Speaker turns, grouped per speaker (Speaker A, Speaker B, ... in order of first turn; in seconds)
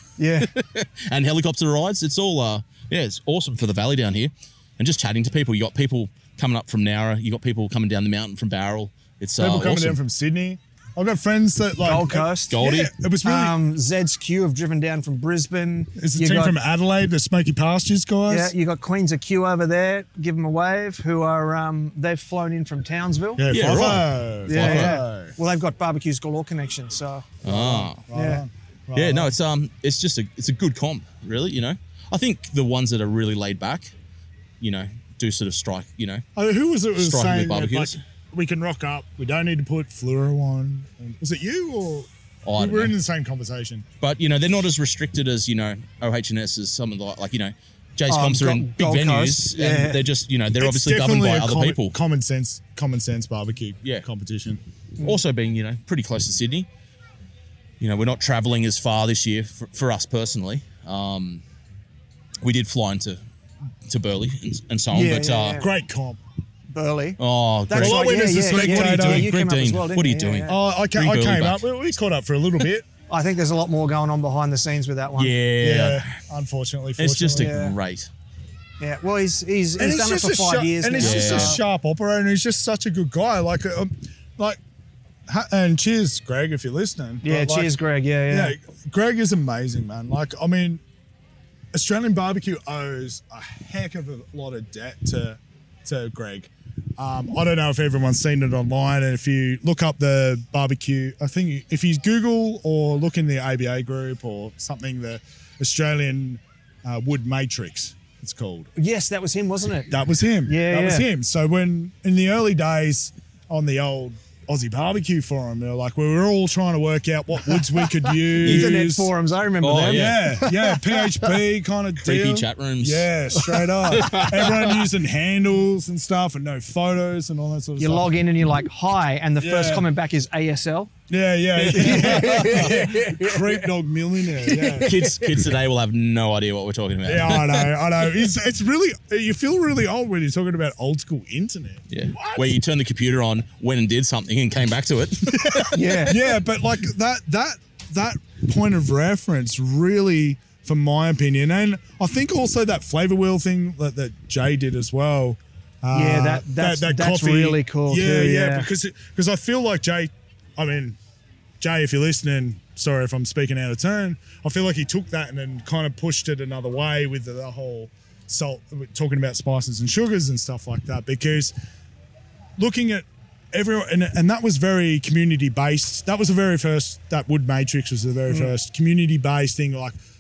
Speaker A: 0.2-0.5, 11.8-12.7, 13.2-16.6, 18.3-23.5, 24.5-27.4, 28.1-28.4, 48.1-50.0, 64.9-65.7, 66.7-70.6, 73.1-75.3, 77.3-77.8, 78.8-81.6, 87.2-88.5, 108.8-109.9, 110.5-111.1, 118.0-121.4, 123.4-124.5, 127.8-130.9, 131.7-133.7, 134.4-135.4, 145.7-146.2, 155.9-158.7, 178.3-178.5
Speaker B: 0.4-10.0, 12.5-12.9, 23.5-25.0, 27.4-28.0, 28.9-33.9, 34.6-36.2, 37.0-38.0, 42.5-42.9, 44.0-52.0, 55.0-56.7, 57.8-61.4, 62.4-63.2, 63.9-65.6, 67.2-71.6, 75.2-76.2, 77.0-78.1, 81.0-81.6, 118.4-118.8, 119.6-120.4, 122.0-123.1, 123.9-124.7, 131.6-132.9, 134.7-137.8, 141.9-146.2
Speaker C: 9.4-13.6, 16.0-18.5, 23.4-25.4, 27.4-29.4, 36.4-43.9, 50.6-54.6, 65.5-66.2, 67.8-69.3, 70.5-72.9, 75.6-77.6, 79.8-84.6, 85.3-87.8, 88.3-90.8, 91.7-108.7, 109.9-119.1, 119.9-128.1, 129.4-129.9, 131.1-135.1, 137.1-142.6, 145.3-161.0, 161.6-171.5, 172.6-179.9